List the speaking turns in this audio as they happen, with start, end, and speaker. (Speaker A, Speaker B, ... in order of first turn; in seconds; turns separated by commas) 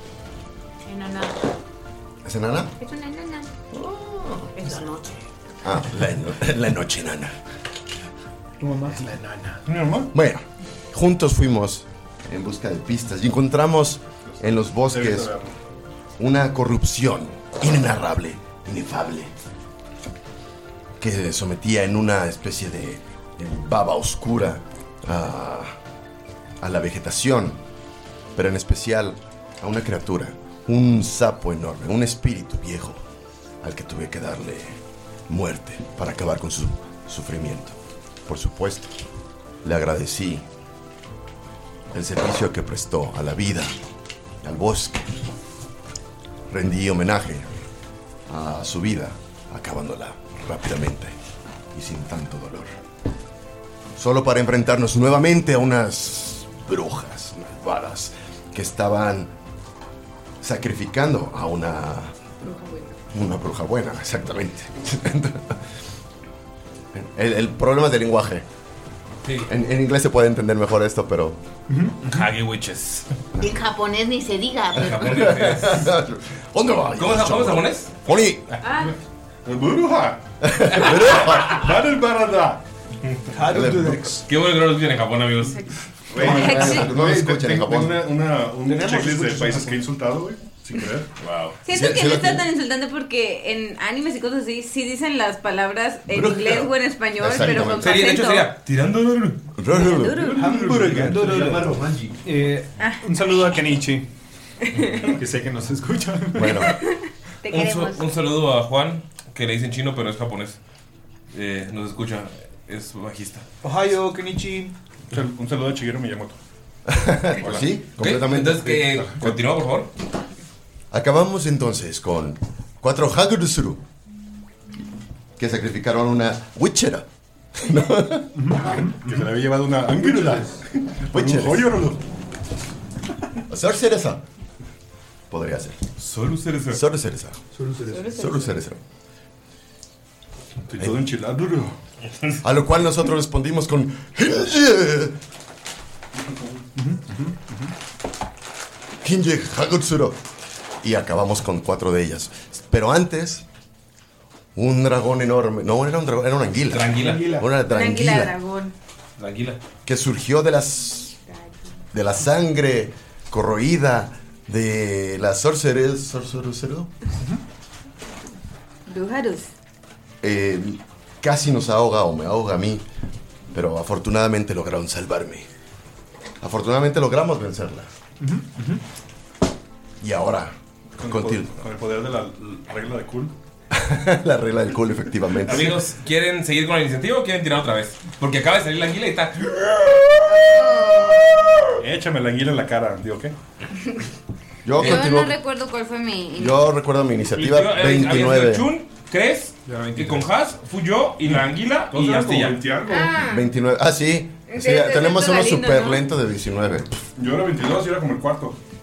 Speaker A: 0.8-1.4, Speaker B: 2.2-2.7, Speaker A: 2.8-3.5, Speaker B: 3.7-4.5, Speaker A: 4.5-5.2, Speaker B: 5.6-7.4, Speaker C: 8.6-9.6, Speaker D: 9.7-10.1, Speaker B: 10.1-15.3, Speaker D: 14.3-15.5, Speaker B: 16.2-19.3, Speaker B: 21.0-25.7, Speaker B: 26.6-27.6, Speaker B: 28.4-33.0, Speaker B: 33.6-38.9, Speaker B: 39.6-40.5, Speaker B: 41.9-43.7, Speaker B: 44.4-45.1, Speaker B: 46.5-47.5, Speaker B: 48.3-51.1, Speaker B: 51.7-52.7, Speaker B: 54.0-59.3, Speaker B: 60.4-62.1, Speaker A: 62.4-63.0, Speaker B: 63.1-65.6, Speaker B: 66.9-68.5, Speaker E: 69.2-69.5, Speaker B: 69.5-71.4, Speaker F: 71.7-72.2, Speaker E: 72.1-73.1, Speaker A: 73.4-75.2, Speaker E: 74.7-75.9, Speaker B: 74.9-78.5, Speaker E: 77.0-77.9, Speaker A: 78.6-79.0, Speaker D: 78.8-80.2, Speaker B: 80.4-81.7, Speaker E: 80.9-81.5, Speaker D: 81.3-82.6, Speaker C: 83.3-84.2, Speaker B: 83.5-84.2, Speaker E: 84.2-85.7, Speaker A: 85.5-86.9, Speaker D: 86.1-91.1, Speaker B: 86.1-88.0, Speaker C: 88.6-89.8, Speaker E: 91.2-91.6, Speaker A: 91.6-98.5, Speaker B: 91.7-92.5, Speaker B: 96.1-98.0, Speaker E: 97.5-99.4, Speaker B: 99.6-100.4, Speaker A: 99.7-100.5, Speaker D: 100.3-101.1, Speaker F: 100.4-104.1, Speaker C: 100.5-101.0, Speaker G: 100.7-102.2, Speaker A: 102.8-103.0, Speaker A: 104.7-105.1, Speaker F: 105.0-106.7, Speaker B: 106.3-106.7, Speaker A: 106.5-108.1, Speaker E: 107.5-110.6, Speaker E: 111.3-113.4, Speaker C: 113.6-114.7, Speaker D: 115.1-116.4, Speaker B: 116.9-119.3, Speaker E: 118.0-119.9, Speaker D: 118.9-119.3, Speaker B: 120.9-123.8, Speaker B: 125.4-128.6, Speaker F: 128.4-128.9, Speaker D: 128.5-132.0, Speaker G: 130.0-130.4, Speaker B: 131.1-131.9, Speaker B: 133.5-134.2, Speaker B: 135.3-135.8, Speaker E: 136.0-136.8, Speaker B: 136.7-137.4, Speaker G: 137.5-138.1, Speaker A: 137.8-138.6, Speaker B: 138.1-138.8, Speaker D: 140.7-141.8, Speaker B: 142.4-145.2, Speaker D: 146.2-146.6, Speaker F: 146.8-147.7, Speaker B: 149.0-150.2, Speaker B: 150.8-153.4, Speaker B: 154.6-158.3, Speaker E: 156.7-157.3, Speaker A: 157.4-158.7, Speaker E: 159.2-159.6, Speaker B: 159.8-161.2, Speaker B: 161.9-166.9, Speaker A: 168.9-169.5, Speaker B: 170.2-172.8, Speaker B: 173.5-175.5, Speaker B: 176.4-177.9, Speaker F: 178.2-178.8, Speaker B: 180.0-181.5, Speaker D: 181.0-183.3, Speaker B: 183.7-185.8, Speaker E: 185.4-190.2, Speaker A: 190.3-191.2, Speaker D: 191.8-193.3, Speaker B: 194.6-195.4, Speaker A: 194.8-196.6, Speaker B: 196.4-198.7, Speaker E: 197.3-202.6, Speaker F: 199.7-200.2, Speaker D: 201.9-203.2, Speaker A: 202.8-203.4, Speaker B: 203.2-206.9, Speaker A: 204.5-206.1, Speaker D: 207.2-208.6